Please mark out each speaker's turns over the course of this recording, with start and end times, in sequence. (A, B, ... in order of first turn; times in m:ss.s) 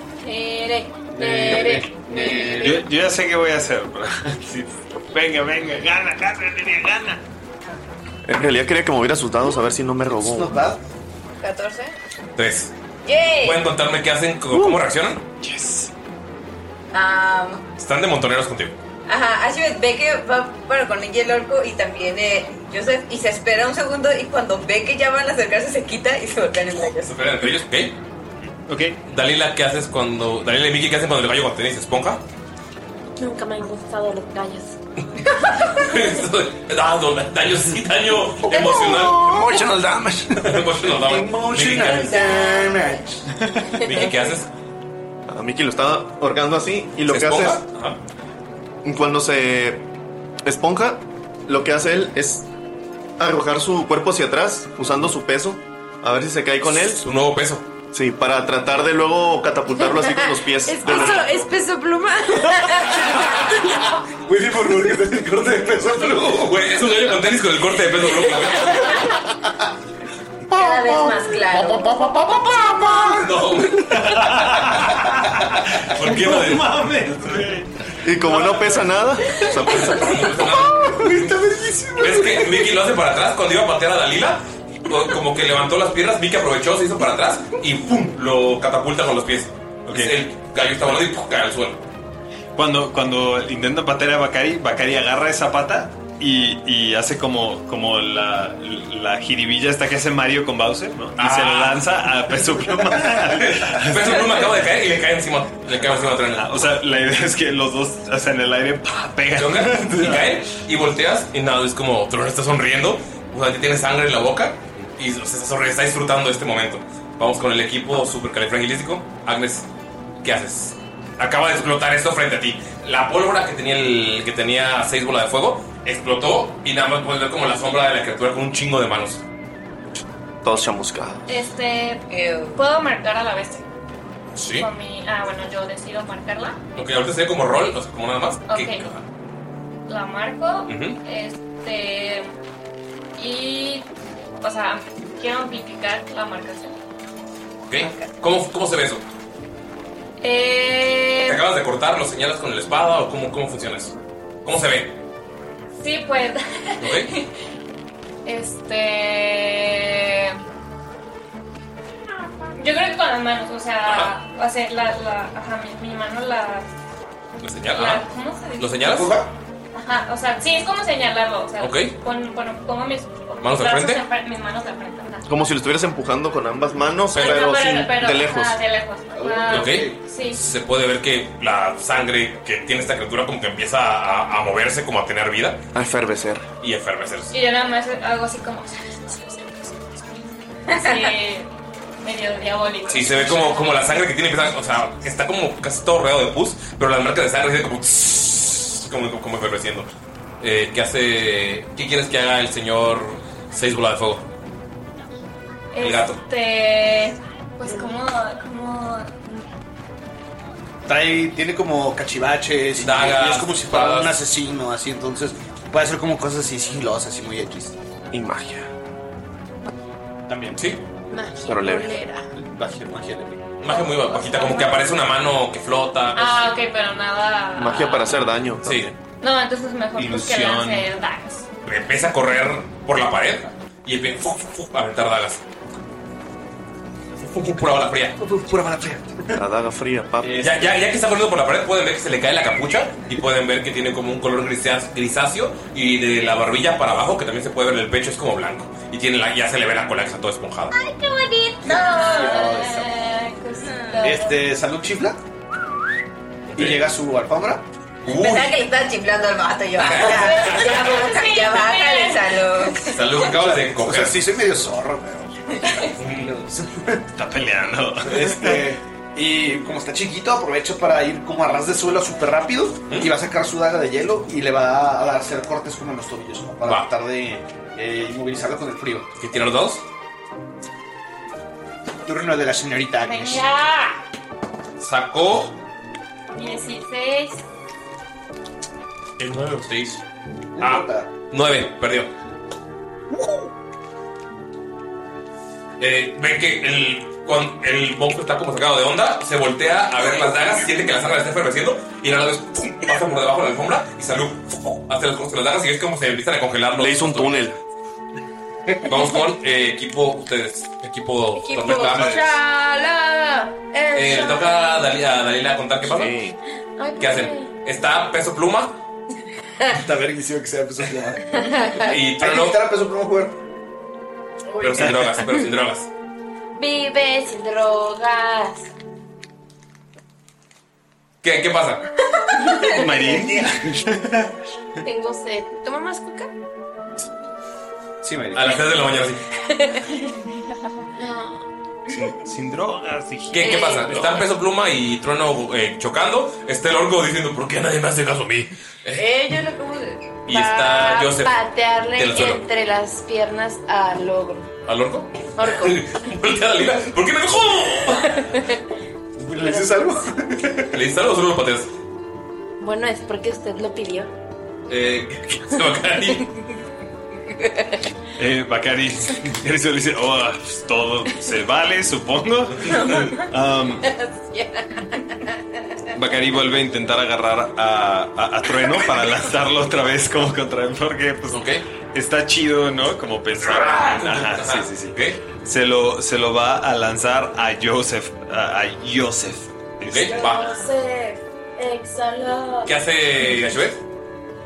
0:00.2-0:02.7 A
0:01.1-0:02.8 B
0:02.5-0:07.2 C
0:08.3-0:10.6 D
0:10.2-0:10.8 B
0:11.4-0:12.0 E
0:12.4-0:12.7 F
0:13.0-0:13.6 E
0:13.4-0:15.2 F
0:14.5-0:14.8 D
0:15.4-0:15.9 C
0:16.9-0:17.7 E
0:17.8-0:18.8 F
0:19.0-0:27.1 E
0:27.0-0:28.0 F
0:28.7-0:29.0 C
0:29.1-0:32.2 F
0:33.2-0:34.8 A
0:35.8-0:39.4 F
0:38.5-0:40.4 D
0:40.4-0:42.1 F
0:40.4-0:43.2 B
0:42.1-0:42.7 A
0:43.5-0:44.2 C
0:43.9-0:44.5 F
0:45.3-0:47.6 D
0:47.1-0:48.0 F
0:48.8-0:49.8 D
0:50.4-0:52.4 D
0:53.2-0:57.0 D
0:57.0-0:57.6 F
0:57.9-1:01.4 D
0:59.8-1:03.1 A
1:00.8-1:01.2 F
1:04.2-1:06.6 B
1:06.4-1:09.0 F
1:10.6-1:12.0 E
1:10.6-1:11.6 G
1:12.9-1:13.1 B
1:13.1-1:13.9 F
1:13.9-1:19.0 C
1:15.9-1:16.7 F
1:18.0-1:20.2 D
1:19.6-1:21.3 F
1:20.4-1:22.7 B
1:22.0-1:31.8 F
1:29.9-1:30.2 C
1:32.6-1:44.5 C
1:41.2-1:41.9 F
1:43.7-1:46.7 F
1:45.7-1:50.4 C
1:49.4-1:59.7 F
2:00.2-2:09.2 F
2:10.4-2:11.2 D
2:11.3-2:13.6 H
2:12.1-2:12.6 E
2:14.4-2:14.7 F
2:14.6-2:16.6 H
2:16.8-2:19.0 F
2:18.5-2:18.9 H
2:19.9-2:22.3 H
2:20.7-2:21.0 F
2:23.1-2:23.9 H
2:24.4-2:26.8 H
2:27.7-2:29.0 F
2:27.8-2:28.1 E
2:30.2-2:31.4 H
2:31.2-2:33.9 F
2:34.4-2:34.9 F
2:35.8-2:37.3 H
2:36.8-2:37.1 F
2:38.2-2:40.4 H
2:42.6-2:46.7 H
2:43.8-2:44.1 F
2:47.4-2:48.0 F
2:47.7-2:48.8 H
2:48.6-2:49.1 F
2:48.9-2:49.3 B
2:49.7-2:55.2 H
2:51.6-2:52.0 F
2:53.4-2:54.0 F
2:55.3-2:58.6 D
2:57.1-3:00.4 H
2:57.1-2:57.4 F
2:59.1-3:00.0 B
2:59.5-3:05.6 F
3:05.7-3:06.4 D
3:06.6-3:07.3 F
3:07.3-3:09.7 H
3:10.7-3:11.5 H
3:12.0-3:13.6 H
3:12.9-3:24.2 F
3:25.7-3:29.5 H
3:25.8-3:26.2 F
3:30.8-3:37.8 B
3:32.8-3:34.2 F
3:38.1-3:38.7 D
3:40.3-3:40.6 B
3:40.6-3:40.8 F
3:41.1-3:42.3 A
3:41.4-3:41.9 D
3:42.3-3:43.5 B
3:43.6-3:46.5 F
3:43.7-3:44.9 H
3:46.1-3:48.3 H
3:47.6-3:48.9 D
3:48.6-3:48.9 F
3:49.2-3:51.5 H
3:50.0-3:50.9 C
3:51.6-3:55.4 F
3:57.2-3:58.2 F
3:58.2-3:59.4 B
3:59.3-4:00.4 D
4:00.2-4:00.7 B
4:00.4-4:10.7 F
4:10.8-4:12.0 G
4:11.6-4:12.4 E
4:11.7-4:14.2 H
4:12.1-4:12.9 B
4:13.6-4:14.0 E
4:14.0-4:15.2 B
4:16.5-4:16.8 F
4:16.5-4:17.6 B
4:18.0-4:18.6 F
4:18.1-4:23.0 E
4:19.8-4:20.8 F
4:19.8-4:22.6 H
4:22.8-4:24.2 F
4:23.2-4:25.4 B
4:26.0-4:26.3 F
4:26.0-4:27.0 B
4:27.2-4:28.6 C
4:28.0-4:39.1 B
4:36.6-4:36.9 F
4:39.2-4:39.8 F
4:42.0-4:43.5 B
4:43.0-4:44.0 H
4:44.8-4:45.5 F
4:46.3-4:47.4 H
4:49.2-4:50.0 F
4:50.6-4:51.1 B
4:50.6-4:52.1 F
4:55.8-5:07.5 F
5:06.8-5:07.6 D
5:08.8-5:12.3 F
5:11.4-5:14.7 A
5:11.9-5:12.2 C
5:13.9-5:16.1 F
5:15.8-5:16.4 D
5:16.8-5:17.5 A
5:17.0-5:18.8 F
5:19.7-5:21.3 B
5:21.4-5:21.9 A
5:21.9-5:22.6 F
5:22.2-5:23.4 B
5:24.6-5:25.9 F
5:26.5-5:28.7 A
5:31.2-5:31.8 F
5:32.6-5:34.3 C
5:34.8-5:36.3 A
5:38.0-5:38.4 B
5:38.3-5:39.2 F
5:41.0-5:41.4 A
5:41.9-5:44.2 C
5:43.3-5:49.1 F
5:43.4-5:43.8 A
5:48.9-5:54.5 A
5:50.2-5:51.3 F
5:52.0-5:52.4 F
5:54.7-5:58.1 F
5:55.4-5:55.8 A
5:58.1-5:58.4 A
5:59.2-6:00.7 B
6:00.7-6:01.7 F
6:02.6-6:04.1 A
6:04.7-6:06.3 F
6:08.2-6:13.9 C
6:13.9-6:15.0 A
6:15.9-6:30.3 C
6:21.3-6:21.6 F
6:23.4-6:25.2 F
6:29.8-6:30.5 F
6:30.1-6:32.7 A
6:32.6-6:33.8 F